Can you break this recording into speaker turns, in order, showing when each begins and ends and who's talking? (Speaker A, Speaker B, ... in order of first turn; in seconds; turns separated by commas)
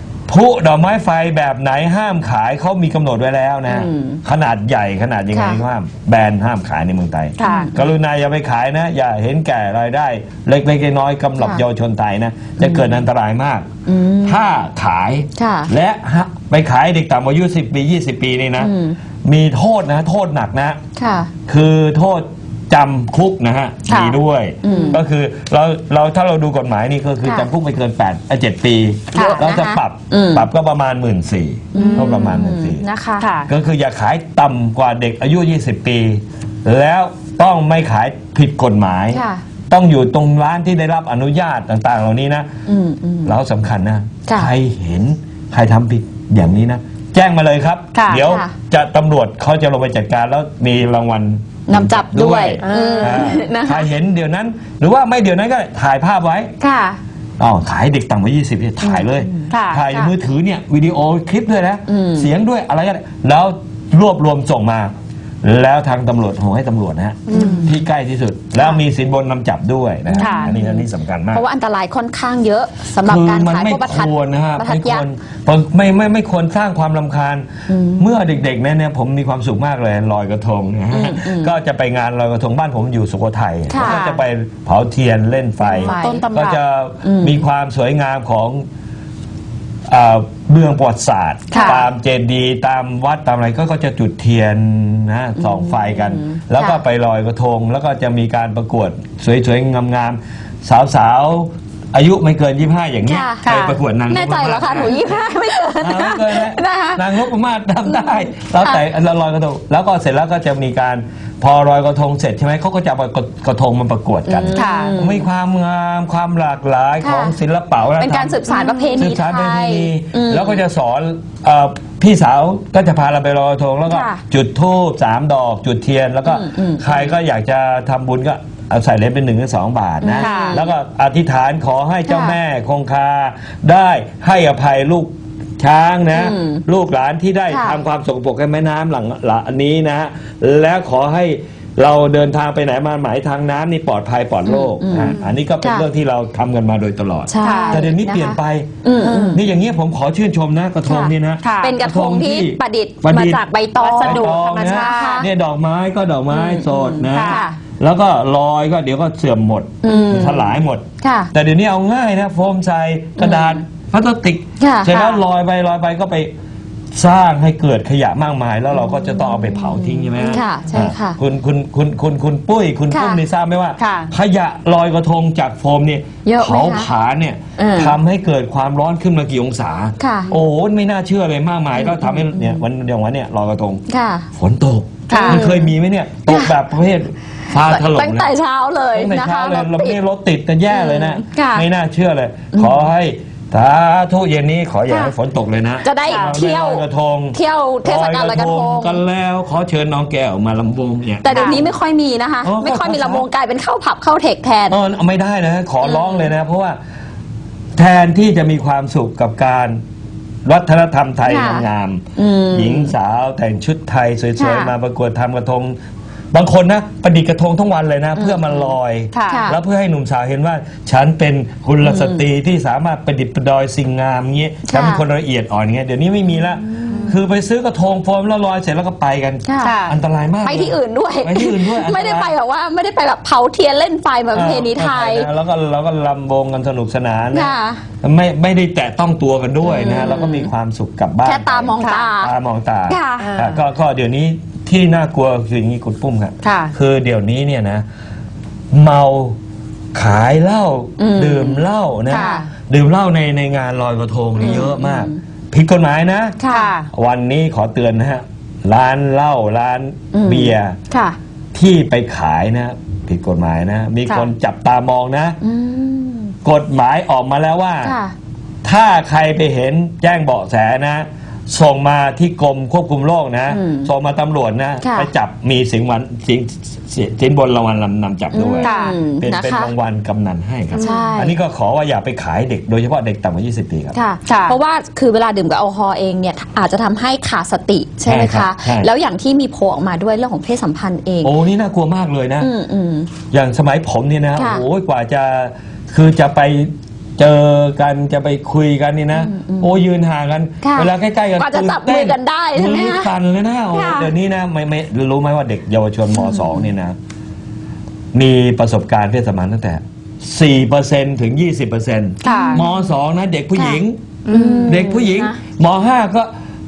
Speaker A: 0.3-13.7, Speaker B: 3.7-4.2, Speaker B: 5.3-5.6, Speaker C: 7.4-7.7, Speaker B: 7.4-7.7, Speaker B: 11.4-11.6, Speaker B: 12.6-13.0, Speaker B: 13.8-14.5, Speaker A: 14.2-18.7, Speaker B: 15.4-15.7, Speaker B: 18.6-19.0, Speaker A: 19.2-20.8, Speaker B: 21.0-21.3, Speaker A: 21.5-32.8, Speaker C: 23.9-24.2, Speaker B: 24.6-25.0, Speaker C: 24.7-24.9, Speaker B: 27.2-27.5, Speaker B: 29.1-30.5, Speaker B: 31.7-33.3, Speaker C: 31.7-32.1, Speaker C: 33.2-33.5, Speaker A: 33.5-42.5, Speaker B: 39.1-39.4, Speaker B: 42.7-43.3, Speaker A: 43.2-56.5, Speaker C: 47.9-48.2, Speaker B: 48.2-48.5, Speaker B: 51.7-53.9, Speaker C: 52.6-53.4, Speaker B: 56.6-57.0, Speaker A: 57.4-64.9, Speaker B: 58.8-60.1, Speaker C: 59.5-59.8, Speaker B: 61.9-62.3, Speaker A: 65.4-71.4, Speaker C: 67.3-67.7, Speaker B: 67.3-67.7, Speaker B: 70.2-75.0, Speaker C: 70.2-70.5, Speaker A: 73.0-77.5, Speaker B: 77.7-78.1, Speaker A: 78.0-88.6, Speaker B: 80.9-81.5, Speaker B: 83.7-84.0, Speaker C: 83.8-84.2, Speaker B: 85.6-86.3, Speaker C: 85.7-86.6, Speaker B: 87.0-87.4, Speaker A: 89.9-105.2, Speaker C: 91.5-91.8, Speaker B: 91.5-91.8, Speaker B: 95.4-96.8, Speaker B: 103.0-103.5, Speaker C: 103.4-103.8, Speaker B: 104.1-107.3, Speaker A: 105.8-118.4, Speaker B: 107.8-108.8, Speaker B: 114.2-115.3, Speaker C: 114.5-114.9, Speaker B: 117.0-117.3, Speaker B: 118.0-120.6, Speaker C: 118.5-119.0, Speaker A: 118.9-148.7, Speaker B: 123.9-124.2, Speaker B: 126.2-127.1, Speaker B: 130.0-130.7, Speaker C: 130.2-130.6, Speaker B: 132.1-132.3, Speaker B: 136.1-136.6, Speaker B: 137.5-137.8, Speaker B: 144.5-145.8, Speaker B: 147.3-149.4, Speaker C: 147.4-147.8, Speaker C: 149.0-149.4, Speaker A: 149.3-153.4, Speaker B: 150.8-155.3, Speaker C: 151.4-151.7, Speaker C: 153.8-155.3, Speaker A: 154.0-166.3, Speaker B: 156.3-157.6, Speaker C: 157.1-157.4, Speaker B: 159.8-161.3, Speaker B: 163.2-163.6, Speaker B: 164.6-165.2, Speaker A: 166.9-183.8, Speaker B: 168.8-171.2, Speaker B: 172.9-173.2, Speaker C: 173.8-174.1, Speaker B: 176.2-176.9, Speaker B: 177.6-177.9, Speaker B: 180.0-180.3, Speaker B: 181.7-182.6, Speaker B: 183.9-184.2, Speaker A: 184.3-188.3, Speaker C: 185.1-185.4, Speaker B: 185.1-185.7, Speaker B: 186.3-186.5, Speaker B: 187.6-190.0, Speaker A: 188.9-201.7, Speaker B: 190.7-191.7, Speaker B: 192.5-192.9, Speaker B: 194.9-195.1, Speaker B: 195.8-199.0, Speaker C: 196.1-196.3, Speaker B: 201.2-204.8, Speaker C: 201.3-201.6, Speaker A: 202.4-203.2, Speaker A: 204.7-206.8, Speaker B: 205.8-206.3, Speaker A: 207.8-209.8, Speaker A: 210.4-215.8, Speaker B: 211.2-212.9, Speaker B: 214.3-214.7, Speaker A: 216.3-232.3, Speaker B: 218.2-218.7, Speaker C: 219.1-219.5, Speaker B: 219.3-219.6, Speaker B: 221.8-222.2, Speaker B: 224.7-225.0, Speaker B: 229.4-229.7, Speaker C: 229.6-229.9, Speaker B: 230.4-235.3, Speaker A: 234.3-247.8, Speaker B: 237.3-237.8, Speaker B: 239.6-240.5, Speaker B: 241.2-242.3, Speaker C: 241.8-242.1, Speaker B: 242.9-243.3, Speaker C: 243.2-243.6, Speaker C: 246.4-246.7, Speaker A: 248.7-249.4, Speaker A: 249.9-256.4, Speaker B: 251.0-252.4, Speaker C: 252.1-252.5, Speaker B: 254.4-255.2, Speaker B: 256.4-256.7, Speaker C: 256.5-256.9, Speaker A: 256.9-260.8, Speaker B: 260.1-261.1, Speaker A: 261.5-265.4, Speaker C: 264.1-264.3, Speaker B: 265.4-266.3, Speaker A: 266.4-267.9, Speaker B: 267.8-268.1, Speaker A: 268.6-284.0, Speaker B: 273.5-273.9, Speaker B: 274.8-275.1, Speaker B: 278.3-279.7, Speaker C: 278.6-278.9, Speaker C: 280.7-281.1, Speaker B: 280.8-281.3, Speaker B: 283.9-291.3, Speaker C: 284.2-284.6, Speaker A: 288.1-288.9, Speaker A: 291.2-292.5, Speaker B: 292.4-293.1, Speaker A: 293.3-306.9, Speaker B: 294.4-294.6, Speaker B: 299.1-299.8, Speaker B: 300.6-303.1, Speaker B: 303.7-304.1, Speaker B: 306.1-306.7, Speaker A: 308.1-314.0, Speaker B: 312.2-312.7, Speaker C: 312.2-312.6, Speaker B: 313.5-315.3, Speaker C: 314.2-315.0, Speaker A: 314.6-316.3